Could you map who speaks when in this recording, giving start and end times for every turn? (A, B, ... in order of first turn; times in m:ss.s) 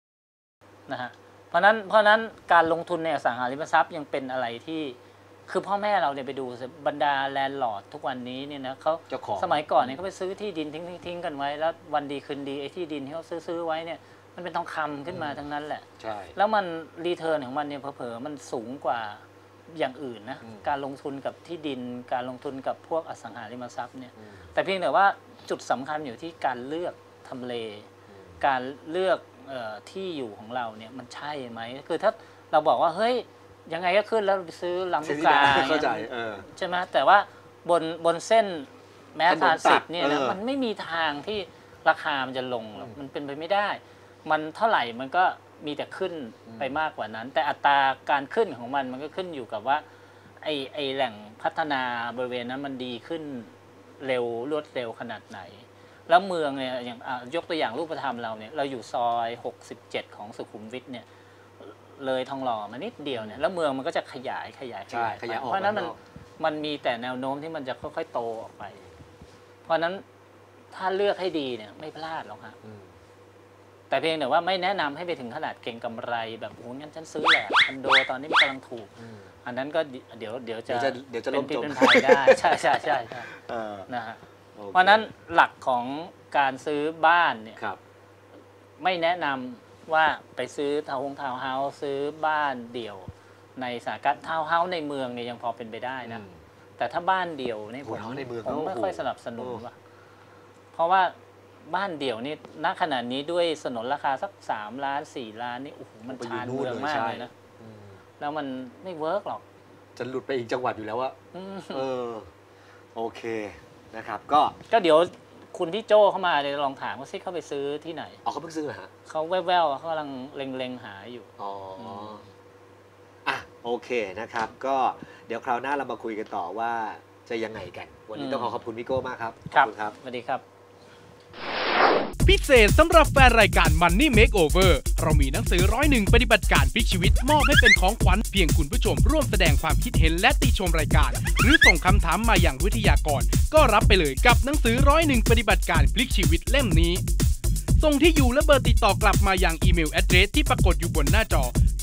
0:00.9-0:27.9 A
0:09.1-0:10.0 B
0:15.1-0:15.4 B
0:16.0-0:16.3 B
0:24.2-0:24.5 B
0:28.1-0:28.4 B
0:28.4-0:49.8 A
0:35.0-0:36.5 B
0:39.3-0:40.4 B
0:46.5-0:46.7 B
0:50.4-1:01.0 A
1:01.6-1:08.8 A
1:03.1-1:03.4 B
1:04.9-1:06.0 B
1:09.6-1:10.0 A
1:10.7-1:12.6 A
1:12.6-1:13.0 B
1:13.9-1:23.3 A
1:19.0-1:19.3 B
1:20.7-1:23.9 B
1:23.9-1:24.2 A
1:24.6-1:25.1 B
1:24.7-1:27.6 A
1:28.8-1:36.2 A
1:36.0-1:36.4 B
1:36.8-1:39.7 A
1:37.8-1:39.6 B
1:40.7-1:47.3 A
1:46.1-1:48.0 B
1:48.2-1:49.4 A
1:50.0-1:51.2 B
1:51.3-1:51.8 A
1:51.7-1:52.3 B
1:52.9-1:54.6 B
1:54.7-1:58.2 A
1:58.2-1:58.9 B
1:59.1-2:02.2 A
2:01.4-2:02.2 B
2:03.2-2:10.0 B
2:08.1-2:08.6 A
2:09.5-2:10.4 A
2:12.2-2:27.0 C
2:27.8-2:31.5 C